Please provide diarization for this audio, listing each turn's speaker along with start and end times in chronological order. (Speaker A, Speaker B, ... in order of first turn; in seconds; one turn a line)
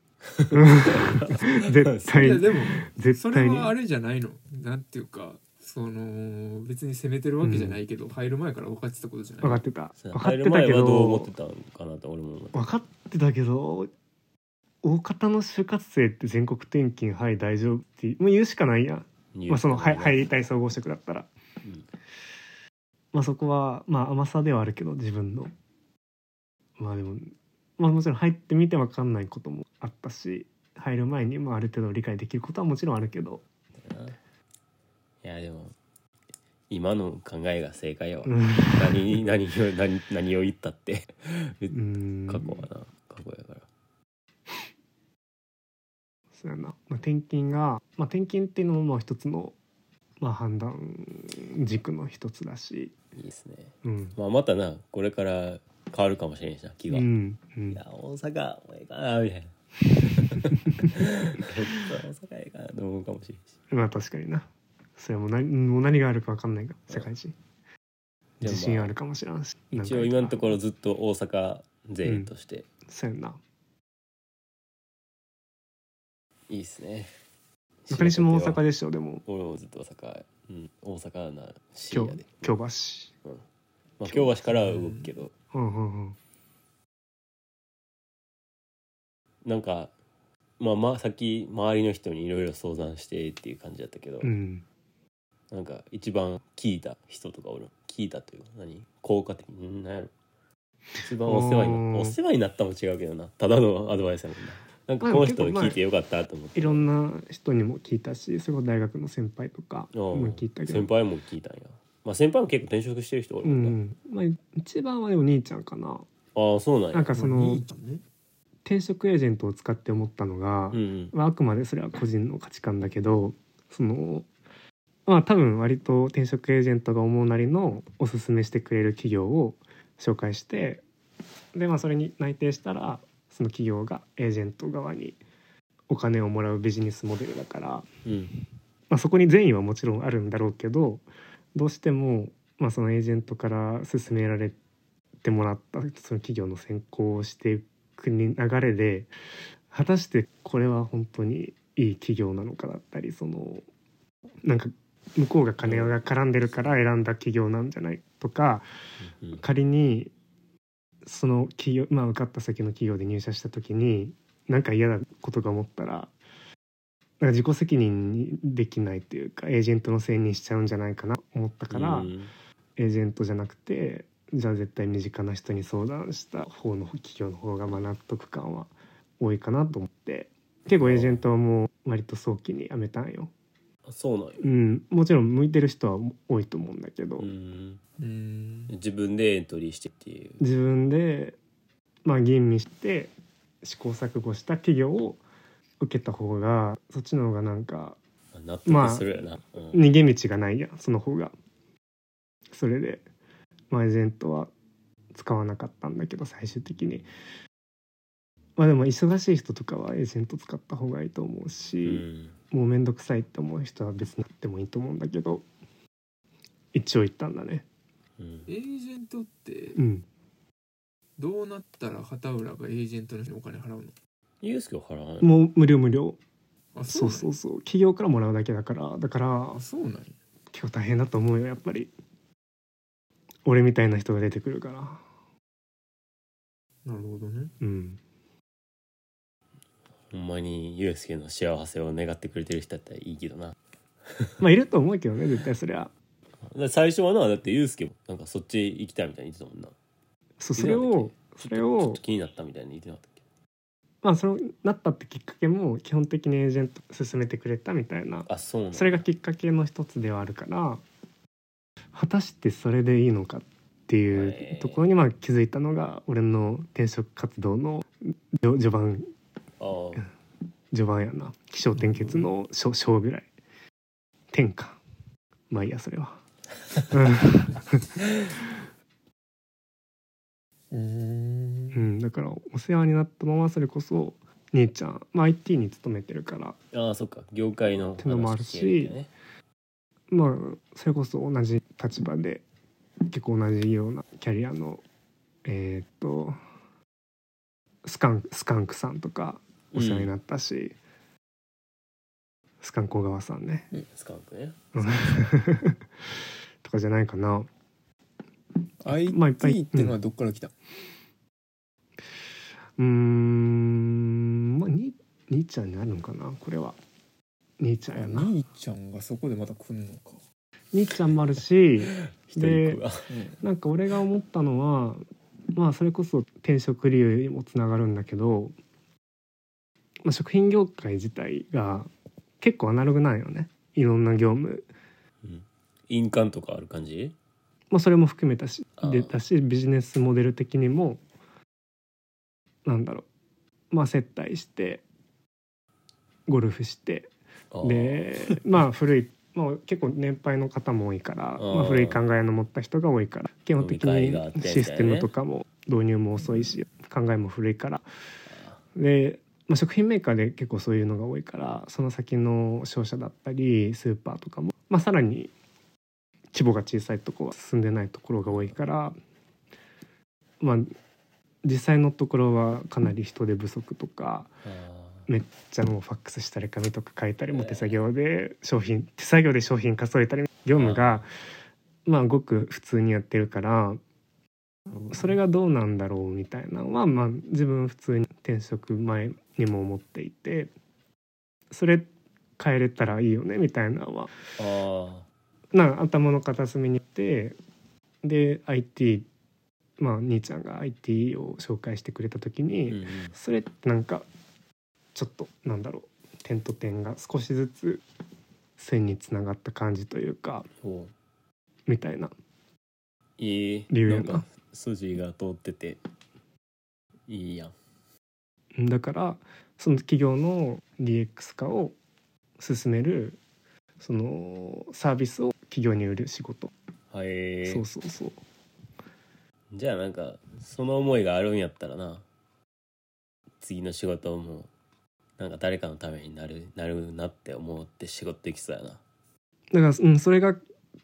Speaker A: 0.3-2.6
Speaker B: 0.5-3.8
Speaker C: 2.1-9.6
Speaker B: 7.4-7.8
Speaker B: 9.4-11.3
Speaker A: 10.0-12.7
Speaker B: 12.5-13.9
Speaker B: 14.8-21.3
Speaker A: 19.3-20.3
Speaker B: 23.1-25.5
Speaker B: 26.8-33.4
Speaker A: 33.8-34.2
Speaker A: 35.2-35.8
Speaker A: 36.7-43.7
Speaker B: 38.3-39.0
Speaker B: 41.7-42.7
Speaker B: 46.4-49.6
Speaker B: 50.2-52.9
Speaker A: 53.1-57.1
Speaker B: 53.8-54.1
Speaker B: 56.9-57.8
Speaker A: 57.7-63.5
Speaker B: 63.7-67.3
Speaker A: 68.4-68.9
Speaker B: 68.4-70.6
Speaker A: 69.8-72.7
Speaker B: 72.0-72.3
Speaker B: 72.9-73.4
Speaker A: 76.5-77.1
Speaker A: 77.8-78.6
Speaker B: 77.9-79.2
Speaker A: 79.3-82.5
Speaker B: 81.9-83.1
Speaker A: 84.0-85.3
Speaker B: 84.1-84.3
Speaker C: 84.5-85.1
Speaker B: 85.5-86.2
Speaker A: 89.4-89.9
Speaker A: 90.6-94.3
Speaker B: 94.2-94.7
Speaker A: 95.5-100.1
Speaker A: 101.0-106.8
Speaker B: 101.2-102.2
Speaker B: 105.0-105.8
Speaker B: 106.5-110.9
Speaker A: 109.9-113.8
Speaker B: 113.4-116.1
Speaker A: 116.3-117.1
Speaker B: 116.9-117.6
Speaker C: 117.1-118.0
Speaker B: 118.7-124.3
Speaker A: 120.7-121.1
Speaker B: 125.1-130.8
Speaker B: 131.5-135.2
Speaker B: 135.9-137.9
Speaker A: 138.1-138.3
Speaker B: 138.9-144.6
Speaker B: 145.2-149.1
Speaker B: 149.7-153.7
Speaker B: 154.4-158.7
Speaker A: 155.6-156.0
Speaker A: 159.1-159.4
Speaker B: 159.4-160.1
Speaker B: 161.1-166.1
Speaker B: 167.2-172.1
Speaker A: 171.7-172.3
Speaker B: 172.8-183.3
Speaker A: 180.8-181.2
Speaker A: 183.9-184.5
Speaker B: 184.4-187.3
Speaker A: 187.2-187.8
Speaker C: 188.0-188.7
Speaker A: 188.7-190.4
Speaker B: 190.4-191.4
Speaker B: 192.1-193.1
Speaker B: 193.6-195.2
Speaker B: 195.8-198.0
Speaker A: 198.3-199.9
Speaker B: 198.7-199.1
Speaker B: 199.7-201.3
Speaker B: 202.5-203.0
Speaker B: 203.7-204.5
Speaker B: 205.1-207.1
Speaker B: 208.6-215.5
Speaker A: 211.8-212.3
Speaker B: 216.7-217.7
Speaker A: 218.2-218.5
Speaker C: 218.5-219.8
Speaker B: 219.8-220.1
Speaker C: 221.2-223.9
Speaker A: 224.4-225.3
Speaker B: 225.2-226.2
Speaker C: 226.8-227.3
Speaker B: 226.9-229.6
Speaker C: 229.5-230.2
Speaker B: 230.5-231.9
Speaker B: 233.4-235.0
Speaker C: 236.8-237.5
Speaker B: 237.6-238.0
Speaker A: 240.1-244.4
Speaker B: 244.4-245.9
Speaker A: 246.5-249.7
Speaker B: 250.4-252.0
Speaker A: 250.6-253.2
Speaker B: 254.0-260.8
Speaker A: 258.3-259.1
Speaker B: 261.9-269.1
Speaker A: 264.1-264.8
Speaker A: 269.6-270.1
Speaker B: 270.7-273.3
Speaker C: 271.8-272.3
Speaker B: 274.3-274.8
Speaker B: 275.5-276.2
Speaker B: 276.9-277.8
Speaker C: 280.7-281.9
Speaker B: 281.7-286.6
Speaker A: 286.7-289.1
Speaker B: 288.0-288.9
Speaker B: 290.1-292.4
Speaker B: 293.1-294.8
Speaker B: 295.4-296.4
Speaker B: 297.8-300.8
Speaker A: 299.7-300.1
Speaker B: 302.6-303.7
Speaker A: 303.9-305.2
Speaker B: 304.7-305.8
Speaker B: 306.6-307.5
Speaker C: 308.8-310.5
Speaker B: 308.9-310.0
Speaker B: 312.8-316.8
Speaker B: 317.6-318.3
Speaker C: 317.9-320.2
Speaker B: 320.7-322.8
Speaker A: 322.3-323.1
Speaker C: 323.1-323.4
Speaker B: 323.4-325.0
Speaker B: 325.6-328.6
Speaker B: 330.0-331.9
Speaker B: 332.4-334.7
Speaker A: 335.2-337.1
Speaker B: 337.7-341.0
Speaker A: 338.8-339.1
Speaker B: 342.6-343.1
Speaker B: 343.7-344.8
Speaker B: 346.3-347.1
Speaker A: 347.5-348.4
Speaker B: 347.6-357.9
Speaker A: 351.4-352.0
Speaker A: 353.6-355.1
Speaker A: 358.3-358.6
Speaker B: 358.8-365.3
Speaker B: 366.3-369.0
Speaker A: 368.3-368.6
Speaker B: 370.4-370.7
Speaker B: 371.4-374.3
Speaker A: 374.4-375.1
Speaker B: 375.1-381.1
Speaker A: 377.3-377.8
Speaker A: 380.5-381.1
Speaker B: 381.9-383.8
Speaker B: 384.9-390.5
Speaker B: 391.5-394.1
Speaker A: 394.4-395.1
Speaker B: 395.5-397.4
Speaker B: 398.0-399.1
Speaker B: 399.8-404.1
Speaker A: 402.7-403.1
Speaker B: 404.9-407.8
Speaker B: 408.6-410.5
Speaker A: 410.6-410.9
Speaker B: 411.7-412.1
Speaker A: 413.2-415.8
Speaker B: 413.7-414.3
Speaker A: 417.1-417.6
Speaker B: 418.6-421.8
Speaker B: 422.4-423.2
Speaker B: 423.8-426.5
Speaker A: 426.9-427.6
Speaker B: 427.5-428.2
Speaker A: 429.5-432.1
Speaker A: 433.4-434.5
Speaker A: 435.2-438.8
Speaker B: 439.5-440.4